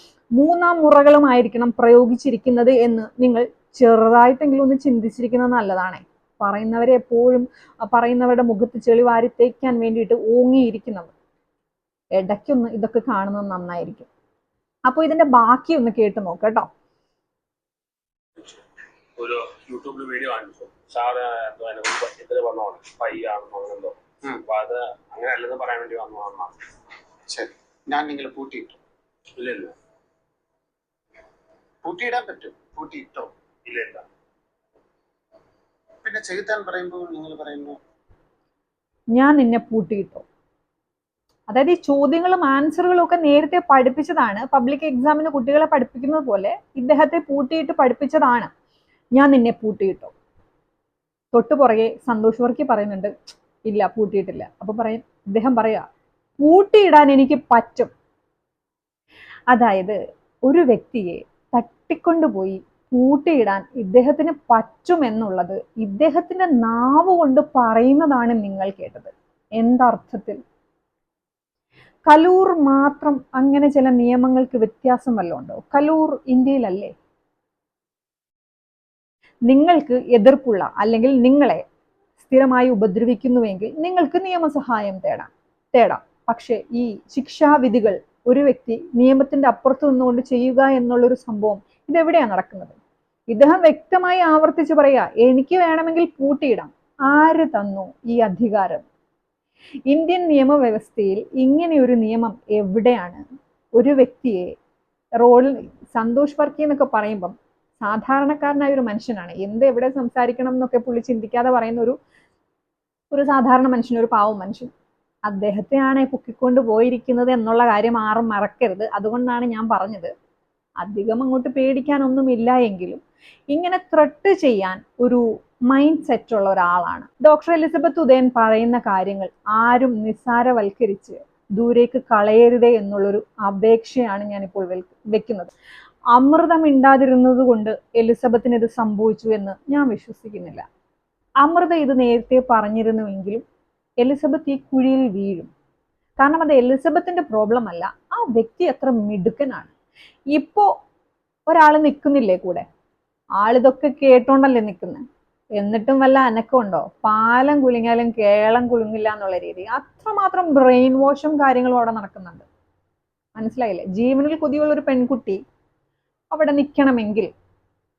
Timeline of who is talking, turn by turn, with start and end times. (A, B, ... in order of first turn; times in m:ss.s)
0:00.4-0:11.1 A
0:12.1-0:14.1 A
0:14.9-0:16.7 A
0:18.4-0:18.6 B
0:19.2-0:26.6 B
0:27.3-0:28.8 C
0:29.4-0:29.7 B
0:31.8-0:33.3 C
0:33.7-0:34.0 B
0:36.0-0:37.8 C
0:39.1-0:40.2 A
0:41.5-0:48.5 A
0:49.1-0:50.1 A
0:51.3-0:53.1 A
0:53.6-0:55.8 A
0:56.4-0:57.9 A
0:59.5-1:10.4 A
1:12.1-1:16.9 A
1:19.5-1:21.6 A
1:22.2-1:32.8 A
1:33.3-1:38.8 A
1:39.9-1:43.2 A
1:43.8-1:44.5 A
1:45.2-1:52.0 A
1:53.1-1:54.7 A
1:55.3-2:00.1 A
2:00.8-2:15.5 A
2:16.1-2:20.6 A
2:21.4-2:23.4 A
2:24.0-2:25.5 A
2:26.2-2:29.7 A
2:30.3-2:30.7 A
2:31.5-2:32.6 A
2:33.4-2:35.0 A
2:35.6-2:42.5 A
2:43.4-2:45.4 A
2:46.3-2:47.3 A